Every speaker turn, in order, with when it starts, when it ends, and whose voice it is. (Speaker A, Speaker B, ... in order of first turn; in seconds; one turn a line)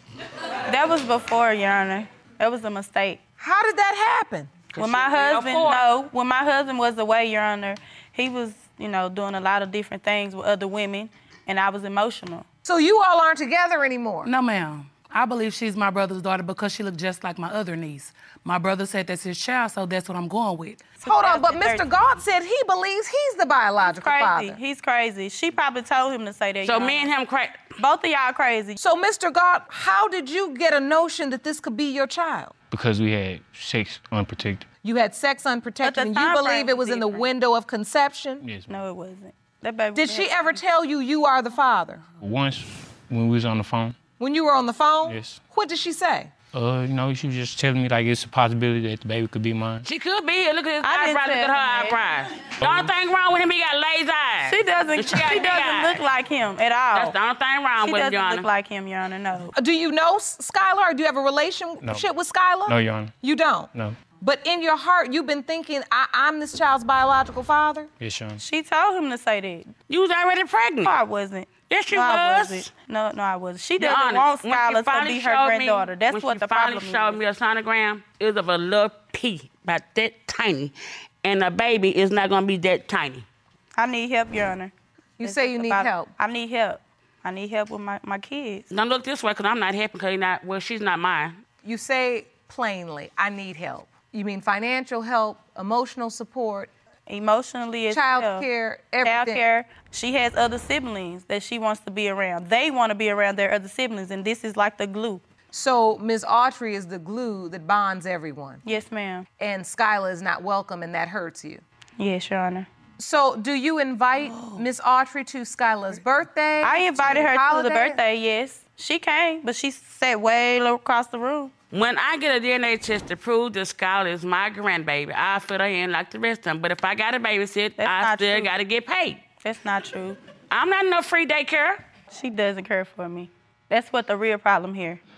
Speaker A: 0.7-3.2
Speaker B: 3.4-4.5
Speaker C: 4.7-5.8
Speaker A: 4.8-12.4
Speaker B: 12.6-14.3
Speaker D: 14.2-20.9
Speaker A: 21.0-21.9
Speaker B: 21.0-24.6
Speaker A: 23.9-27.1
Speaker C: 26.6-27.6
Speaker A: 27.8-28.8
Speaker B: 28.8-32.5
Speaker E: 32.7-34.6
Speaker B: 34.8-38.5
Speaker A: 35.8-37.3
Speaker A: 38.7-40.4
Speaker B: 40.0-42.0
Speaker E: 42.2-44.0
Speaker B: 44.2-46.3
Speaker E: 45.1-45.4
Speaker E: 46.5-49.9
Speaker C: 49.8-56.0
Speaker A: 50.8-52.0
Speaker A: 54.5-57.2
Speaker C: 56.9-58.5
Speaker A: 57.8-59.5
Speaker B: 59.5-67.9
Speaker E: 61.8-62.1
Speaker E: 62.7-63.1
Speaker E: 68.0-68.4
Speaker A: 68.4-69.7
Speaker C: 69.9-71.0
Speaker A: 70.8-77.2
Speaker C: 71.7-72.7
Speaker C: 73.8-83.3
Speaker A: 83.8-88.7
Speaker B: 85.2-86.1
Speaker C: 88.7-91.4
Speaker B: 91.6-96.7
Speaker A: 97.1-98.5
Speaker B: 97.9-99.4
Speaker A: 99.0-105.2
Speaker B: 105.5-108.6
Speaker A: 108.6-109.3
Speaker B: 109.4-111.6
Speaker A: 112.0-112.7
Speaker B: 113.0-118.0
Speaker A: 116.6-121.5
Speaker C: 121.7-129.2
Speaker A: 127.8-128.5
Speaker A: 129.4-130.2
Speaker C: 130.5-131.8
Speaker A: 132.1-135.0